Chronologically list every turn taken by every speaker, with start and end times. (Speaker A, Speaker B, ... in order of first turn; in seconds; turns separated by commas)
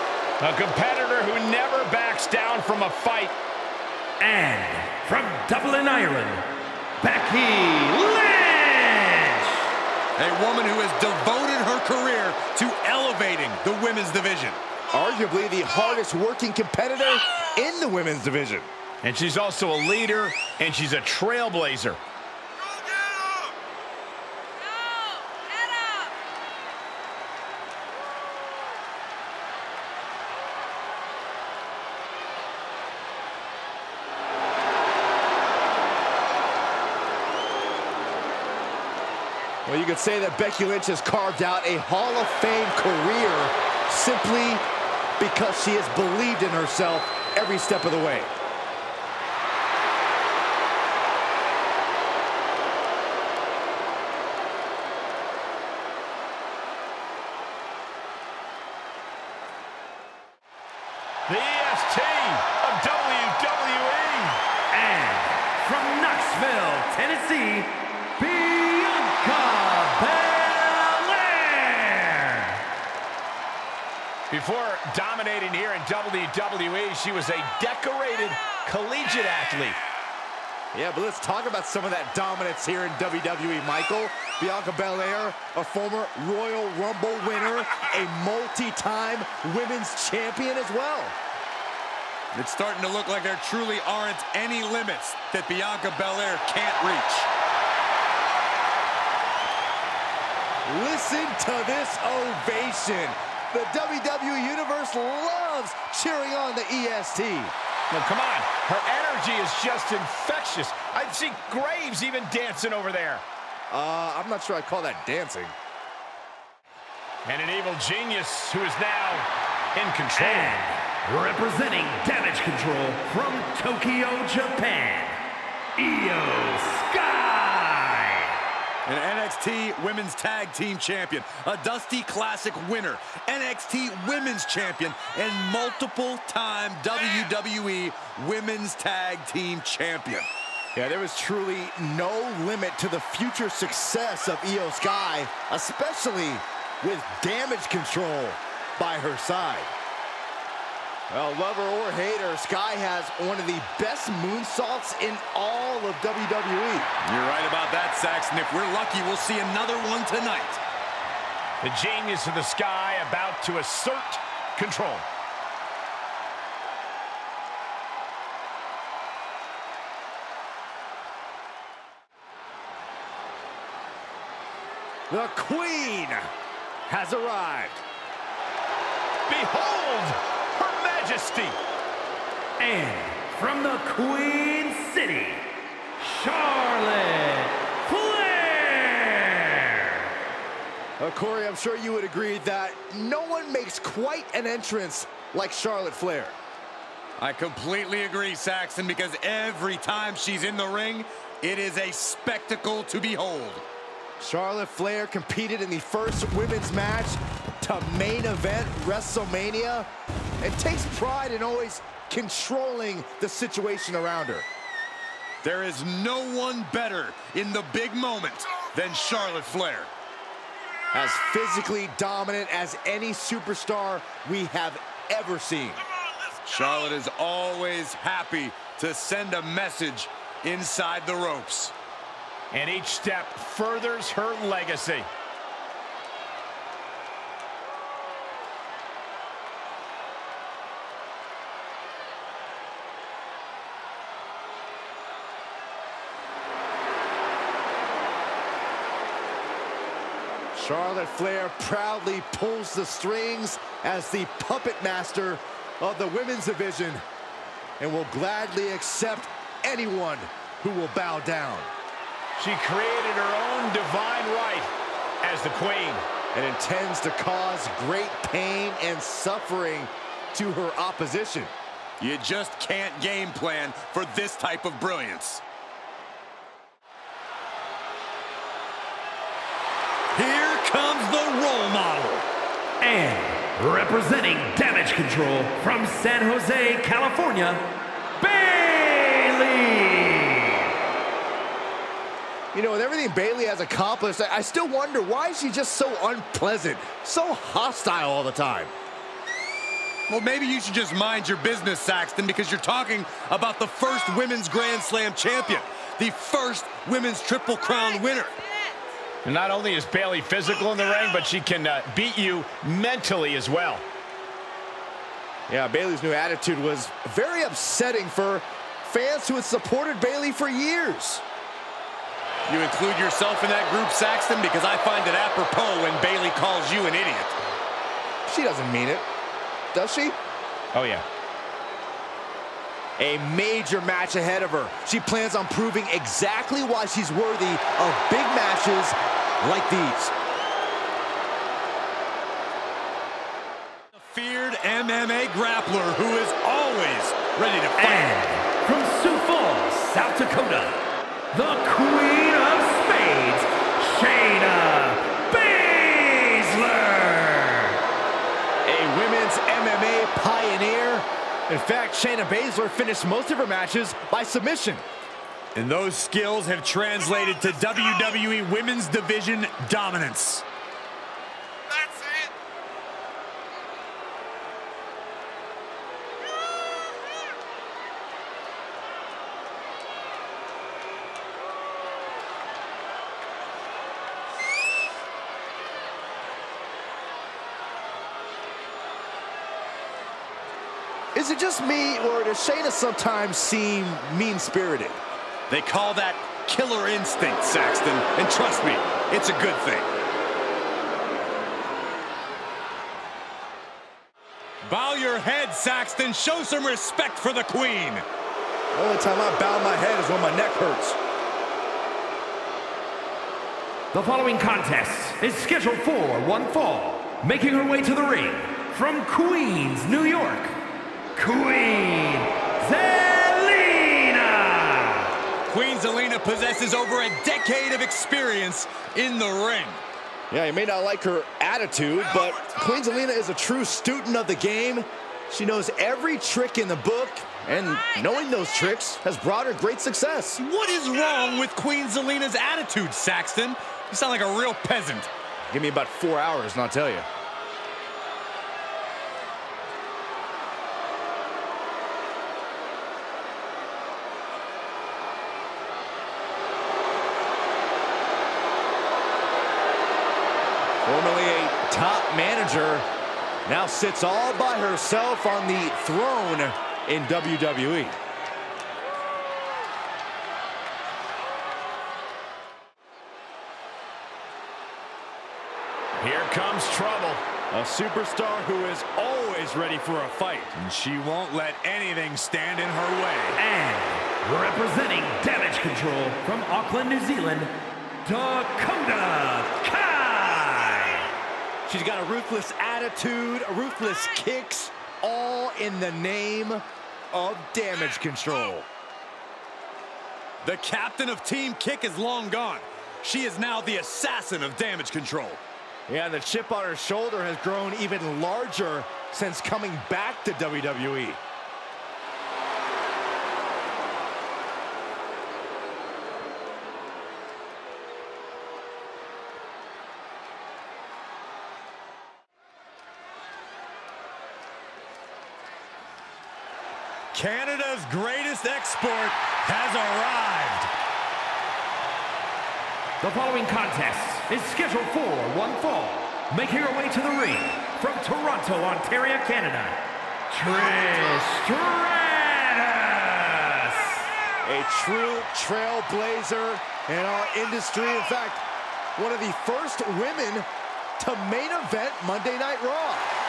Speaker A: 0.4-3.4, Speaker B: 4.2-6.5, Speaker B: 7.0-9.6, Speaker C: 10.2-14.6, Speaker D: 14.9-18.7, Speaker A: 19.0-22.0, Speaker D: 39.7-44.7, Speaker D: 45.2-48.3, Speaker A: 61.3-64.4, Speaker B: 64.7-72.6, Speaker A: 74.3-79.8, Speaker D: 80.7-91.2, Speaker C: 92.3-97.3, Speaker D: 100.7-107.5, Speaker A: 107.9-113.2, Speaker D: 113.7-115.5, Speaker A: 117.2-120.5, Speaker B: 120.1-125.2, Speaker B: 125.8-128.3, Speaker C: 128.9-140.3, Speaker D: 140.8-149.7, Speaker D: 151.1-156.9, Speaker C: 157.0-160.6, Speaker A: 161.6-165.1, Speaker D: 175.1-176.2, Speaker D: 176.9-177.8, Speaker A: 179.3-181.6, Speaker B: 182.6-185.4, Speaker B: 186.0-190.1, Speaker D: 191.0-196.4, Speaker C: 197.2-203.6, Speaker D: 204.2-209.9, Speaker D: 210.4-214.5, Speaker C: 215.4-219.9, Speaker D: 220.9-225.8, Speaker C: 226.4-231.7, Speaker A: 232.5-235.1, Speaker D: 250.5-257.0, Speaker D: 257.8-261.7, Speaker A: 262.4-264.7, Speaker A: 265.2-266.0, Speaker D: 266.3-271.5, Speaker C: 272.0-275.4, Speaker C: 280.1-282.3, Speaker B: 282.8-287.7, Speaker B: 288.2-290.7, Speaker D: 292.5-298.7, Speaker C: 300.1-308.4, Speaker A: 309.2-313.8, Speaker D: 315.5-321.2, Speaker C: 322.5-327.4, Speaker D: 328.3-329.1, Speaker D: 329.7-330.2, Speaker A: 330.7-331.1, Speaker D: 333.0-340.1, Speaker C: 343.9-348.1, Speaker B: 347.8-357.8, Speaker D: 358.6-364.9, Speaker C: 365.6-370.4, Speaker C: 371.9-372.3, Speaker D: 391.1-395.0, Speaker C: 395.5-399.9, Speaker C: 404.6-408.1, Speaker D: 408.7-411.0, Speaker B: 413.9-420.6, Speaker B: 421.1-425.1, Speaker C: 425.5-429.8, Speaker D: 430.3-440.4, Speaker C: 440.4-445.1, Speaker D: 445.5-447.1, Speaker D: 460.8-462.9, Speaker D: 463.5-468.0, Speaker A: 476.0-477.2, Speaker D: 477.5-480.5, Speaker C: 480.5-483.4, Speaker B: 483.4-487.5, Speaker B: 488.0-491.1, Speaker D: 491.7-498.7, Speaker C: 500.4-505.4, Speaker D: 505.9-511.2, Speaker C: 527.1-530.7, Speaker B: 533.0-539.8, Speaker B: 540.3-544.1, Speaker D: 544.4-548.4, Speaker D: 549.0-550.5, Speaker D: 551.0-553.1